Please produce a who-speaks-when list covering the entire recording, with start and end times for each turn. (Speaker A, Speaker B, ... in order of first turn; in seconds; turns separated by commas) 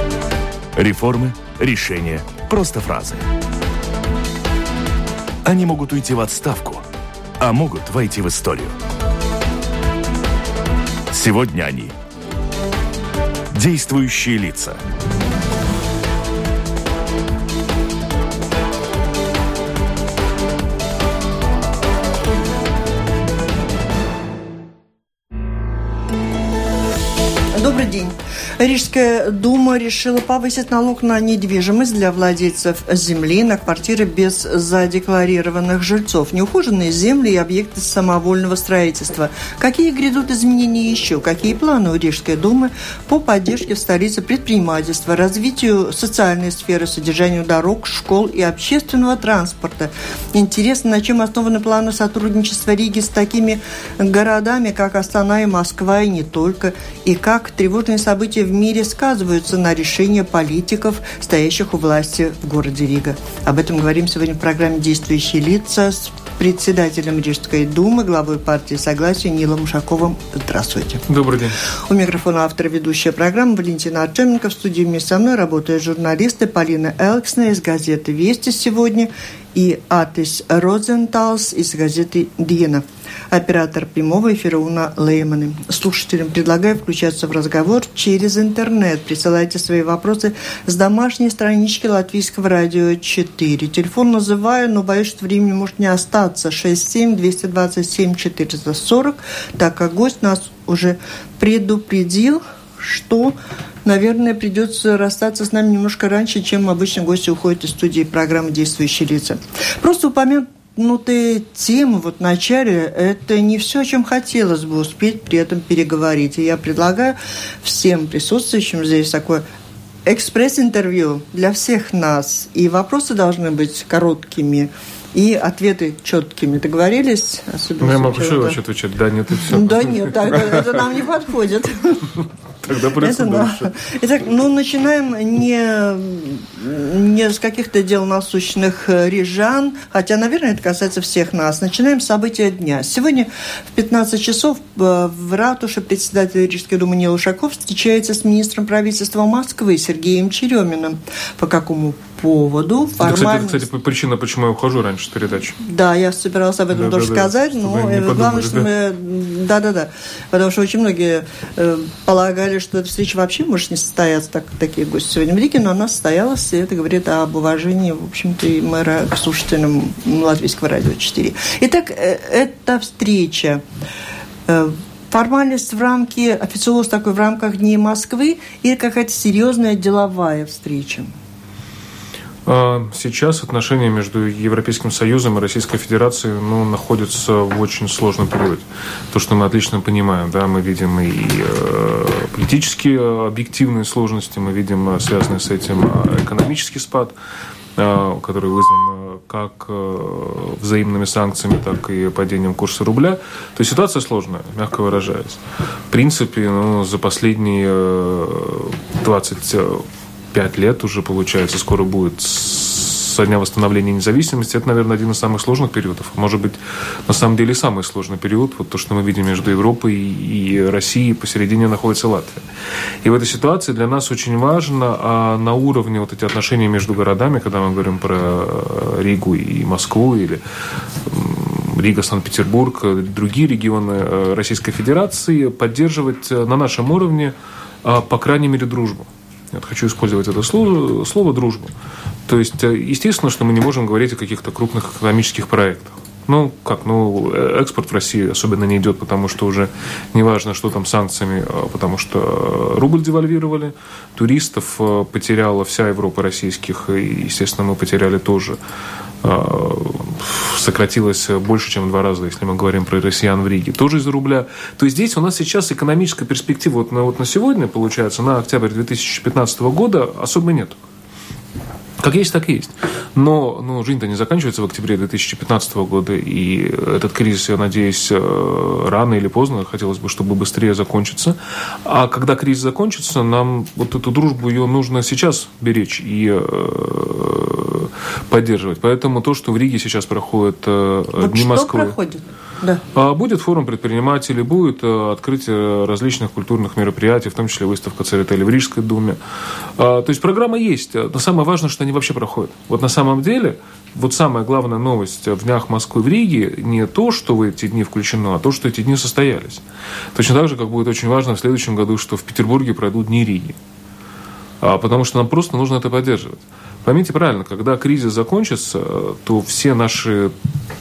Speaker A: 0.7-3.2, Speaker A: 5.4-6.8, Speaker A: 7.4-8.7, Speaker A: 11.1-11.9, Speaker A: 13.5-14.8, Speaker B: 27.5-71.0, Speaker C: 71.1-71.6, Speaker B: 71.9-119.4, Speaker B: 120.0-128.6, Speaker C: 127.8-130.8, Speaker B: 129.5-132.2, Speaker C: 132.6-133.7, Speaker B: 133.0-153.6, Speaker C: 153.0-155.6, Speaker B: 155.6-173.6, Speaker C: 156.7-158.7, Speaker B: 174.5-181.1, Speaker C: 182.4-197.1, Speaker C: 197.8-222.4, Speaker C: 223.0-230.4, Speaker C: 231.0-241.7, Speaker C: 242.2-258.6, Speaker C: 259.2-270.8, Speaker C: 272.0-291.9, Speaker B: 291.2-292.8, Speaker C: 292.9-299.2, Speaker C: 299.8-309.6, Speaker C: 310.1-313.6, Speaker C: 314.6-320.3